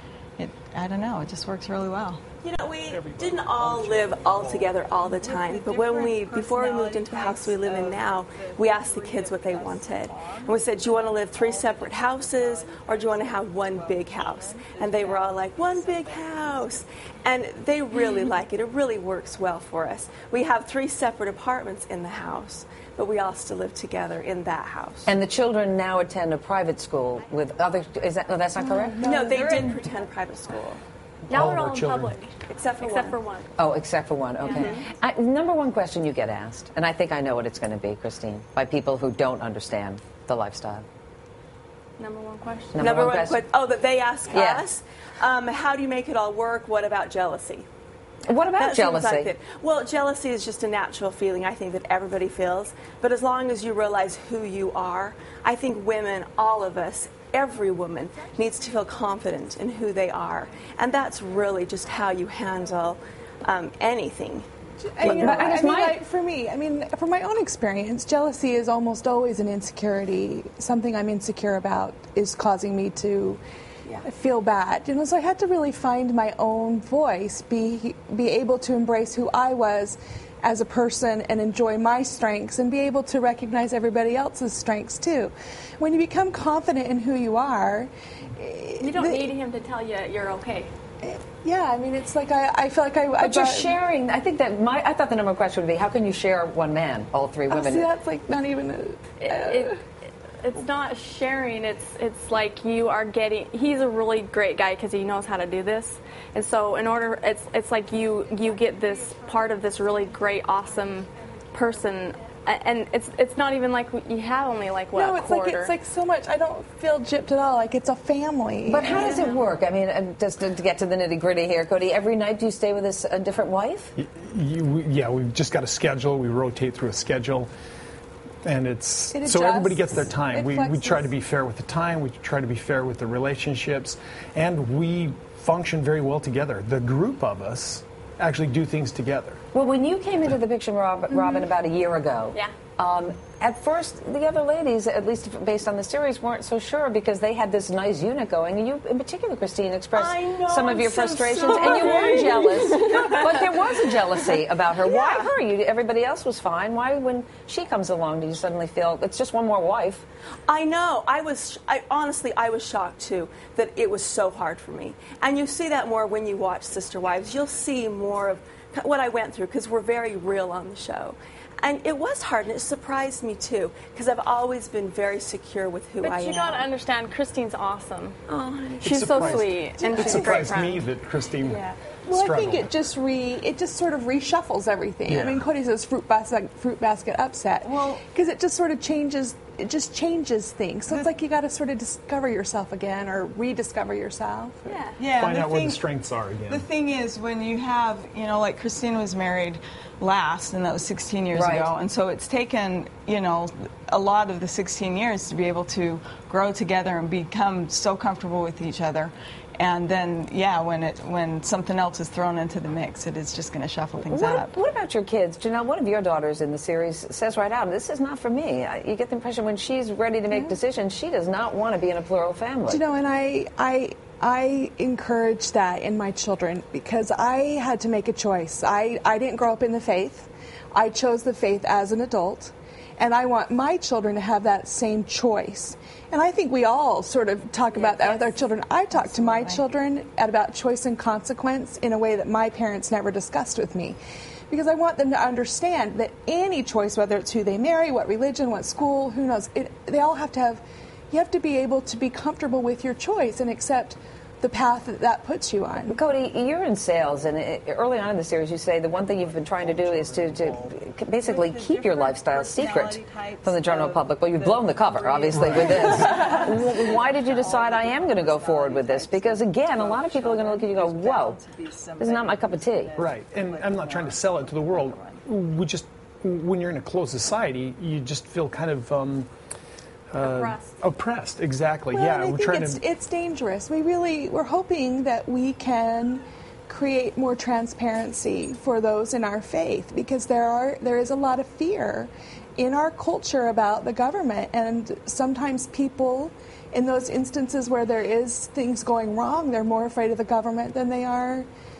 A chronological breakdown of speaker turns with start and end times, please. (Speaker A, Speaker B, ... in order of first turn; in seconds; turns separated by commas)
Speaker A: 0.4-2.2, Speaker B: 2.4-25.1, Speaker C: 2.9-4.8, Speaker A: 5.0-16.8, Speaker D: 25.1-29.0, Speaker E: 28.6-29.7, Speaker B: 29.0-30.8, Speaker F: 31.3-33.5, Speaker C: 31.3-32.2, Speaker B: 32.4-33.2, Speaker D: 33.6-40.9, Speaker F: 34.4-34.8, Speaker B: 34.5-34.9, Speaker F: 42.0-42.8, Speaker D: 42.7-43.4, Speaker B: 42.8-47.7, Speaker D: 44.3-44.6, Speaker D: 48.2-49.3, Speaker B: 48.5-65.7, Speaker E: 64.8-73.4, Speaker D: 65.0-66.0, Speaker E: 74.0-89.3, Speaker F: 88.8-90.7, Speaker E: 91.0-93.8, Speaker D: 93.2-97.9, Speaker E: 97.5-99.8, Speaker F: 99.2-99.8, Speaker F: 100.4-115.7, Speaker B: 108.4-112.4, Speaker E: 114.9-119.2, Speaker D: 118.6-123.9, Speaker F: 118.8-119.4, Speaker C: 124.0-127.5, Speaker C: 128.4-139.4, Speaker E: 129.1-131.1, Speaker D: 139.5-160.0, Speaker B: 149.9-153.6, Speaker B: 154.7-155.3, Speaker B: 160.5-176.7, Speaker F: 176.0-178.2, Speaker B: 178.3-180.5, Speaker C: 178.8-182.7, Speaker F: 178.8-180.8, Speaker E: 182.1-194.6, Speaker C: 185.1-185.5, Speaker A: 187.6-188.0, Speaker F: 194.7-195.0, Speaker A: 195.0-195.8, Speaker C: 195.1-196.7, Speaker A: 196.5-214.5, Speaker D: 201.3-201.7, Speaker D: 214.1-222.8, Speaker E: 222.7-244.0, Speaker F: 237.7-238.3, Speaker A: 238.9-239.7, Speaker E: 244.5-255.9, Speaker D: 255.9-271.4, Speaker C: 258.9-260.8, Speaker A: 261.2-275.2, Speaker C: 265.3-266.3, Speaker D: 272.0-272.9, Speaker C: 273.0-279.3, Speaker C: 280.1-282.8, Speaker F: 280.2-280.8, Speaker E: 281.9-301.5